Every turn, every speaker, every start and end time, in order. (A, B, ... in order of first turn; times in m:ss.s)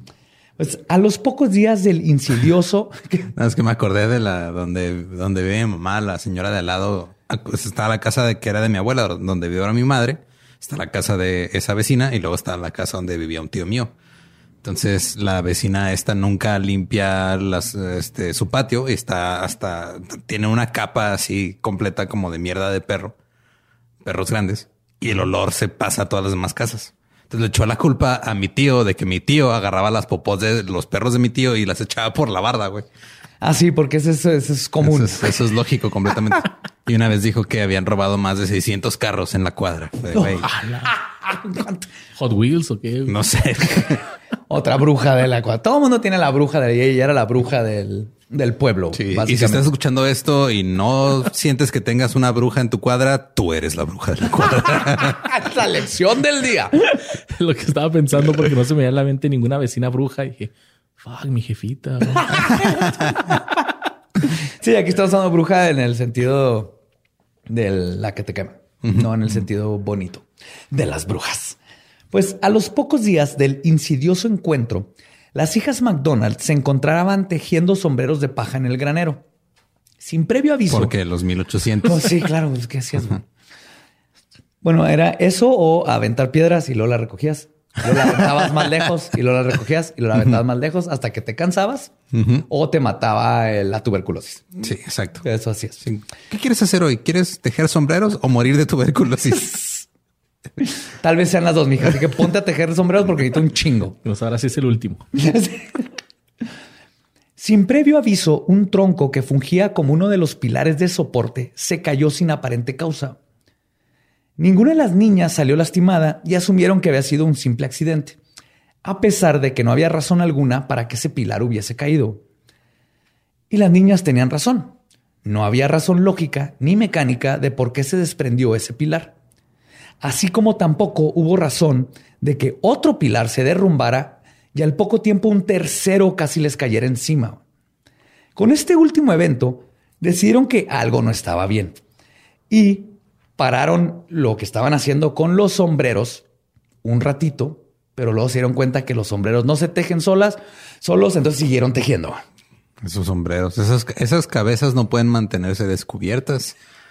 0:00.6-0:03.3 A
0:03.3-0:13.9 B
0:14.6-0:23.2 B
0:24.0-0:32.8 B
0:33.4-0:35.4 A
0:34.8-0:40.5 B
0:40.1-0:41.9 A
0:40.4-0:40.9 C
0:42.2-0:43.2 C
0:43.1-0:44.0 B
0:44.5-0:49.6 A
0:48.9-0:55.2 B
0:54.6-0:56.9 A
0:57.2-1:03.1 C
1:02.1-1:03.1 A
1:04.3-1:06.8 A
1:07.5-1:11.6 A
1:12.1-1:19.2 A
1:20.0-1:20.9 A
1:20.7-1:22.2 B
1:21.8-1:23.2 A
1:24.6-1:31.9 A
1:32.1-1:32.4 B
1:32.5-1:34.5 A
1:34.6-1:35.2 B
1:35.2-1:35.8 A
1:35.8-1:39.8 B
1:40.6-1:44.0 A
1:44.0-1:45.0 C
1:45.1-1:45.8 A
1:47.4-1:53.2 A
1:54.4-1:58.2 A
1:58.8-2:02.2 A
2:03.5-2:09.2 A
2:10.0-2:17.4 A
2:18.4-2:21.8 A
2:22.5-2:26.2 A
2:26.8-2:32.2 A
2:32.8-2:36.6 B